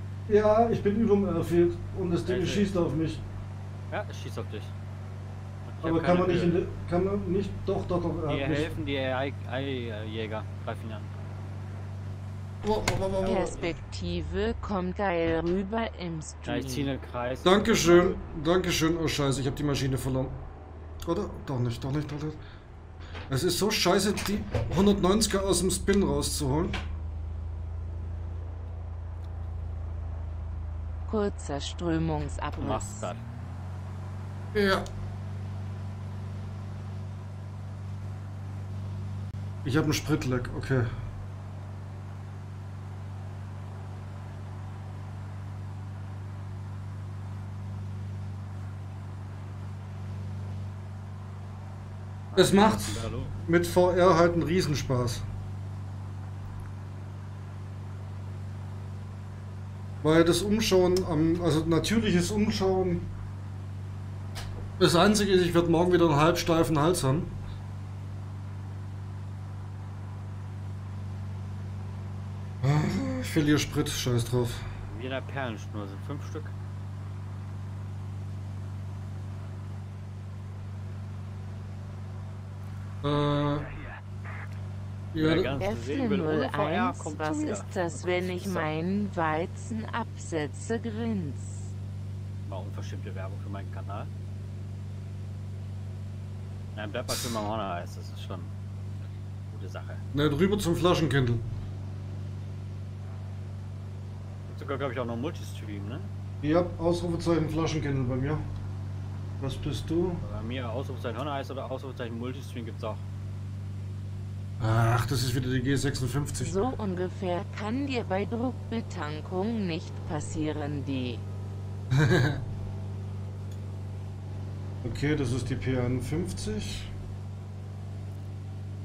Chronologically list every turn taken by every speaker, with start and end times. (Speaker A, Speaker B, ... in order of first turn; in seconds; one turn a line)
Speaker A: 0.3-3.2
Speaker B: 2.3-2.7
Speaker B: 3.9-4.7
Speaker B: 5.7-6.6
Speaker A: 5.8-8.8
Speaker B: 8.3-11.1
Speaker A: 12.6-13.6
Speaker C: 13.2-16.9
Speaker B: 16.4-18.2
Speaker A: 17.4-20.4
Speaker A: 21.1-22.4
Speaker A: 23.3-26.8
Speaker C: 31.1-33.1
Speaker B: 32.6-33.2
Speaker A: 34.5-34.9
Speaker A: 39.6-40.9
Speaker B: 52.3-53.4
Speaker A: 52.4-55.2
Speaker A: 60.0-63.1
Speaker A: 64.8-67.4
Speaker A: 72.6-74.7
Speaker B: 74.9-76.6
Speaker A: 83.0-83.7
Speaker A: 85.1-85.6
Speaker B: 85.2-88.7
Speaker C: 85.6-91.7
Speaker B: 92.5-94.1
Speaker B: 96.8-98.5
Speaker B: 99.5-100.0
Speaker A: 100.1-101.5
Speaker B: 104.5-106.1
Speaker A: 106.4-108.4
Speaker A: 109.4-110.2
Speaker B: 110.2-113.0
Speaker A: 114.6-116.5
Speaker C: 116.4-121.2
Speaker A: 121.9-122.4
Speaker A: 124.8-126.9